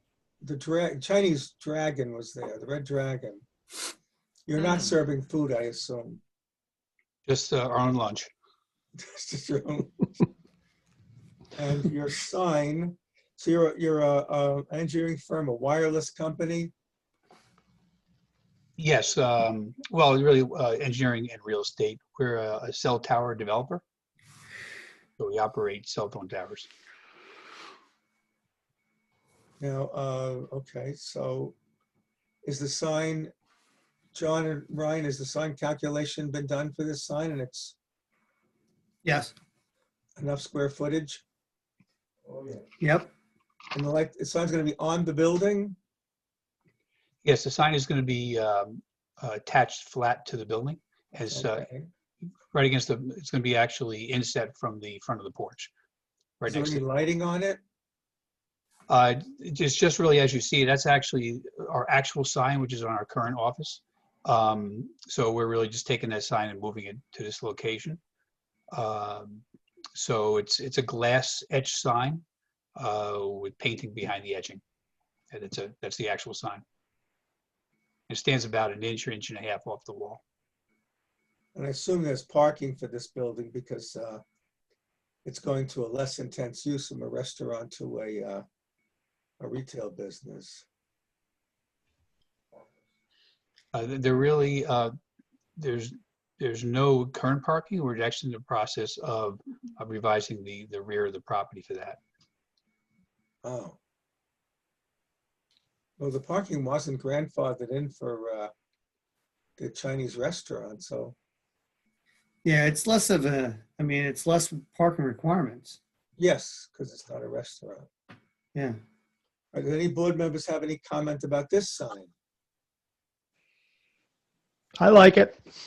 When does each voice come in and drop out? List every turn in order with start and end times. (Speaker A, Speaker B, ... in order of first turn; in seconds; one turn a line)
Speaker A: 0.4-3.4
Speaker A: 4.5-6.2
Speaker B: 7.3-8.3
Speaker A: 9.0-10.1
Speaker A: 11.5-16.7
Speaker B: 18.8-23.8
Speaker B: 25.2-26.7
Speaker A: 29.6-31.6
Speaker A: 32.4-33.3
Speaker A: 34.1-37.8
Speaker C: 39.0-39.3
Speaker A: 40.2-41.2
Speaker C: 42.8-43.1
Speaker A: 43.7-45.8
Speaker B: 47.2-51.6
Speaker A: 51.3-51.9
Speaker B: 52.5-55.7
Speaker B: 56.4-56.8
Speaker A: 56.5-57.6
Speaker B: 58.9-68.0
Speaker B: 68.7-69.4
Speaker B: 69.9-72.2
Speaker B: 72.8-74.6
Speaker B: 75.3-76.6
Speaker B: 78.1-80.2
Speaker A: 81.5-84.2
Speaker A: 85.2-88.4
Speaker A: 89.4-90.6
Speaker B: 93.7-94.9
Speaker B: 95.6-102.0
Speaker A: 103.4-103.8
Speaker A: 106.0-108.5
Speaker A: 109.6-111.2
Speaker C: 112.4-115.8
Speaker A: 116.2-117.9
Speaker A: 119.5-122.1
Speaker C: 124.8-125.3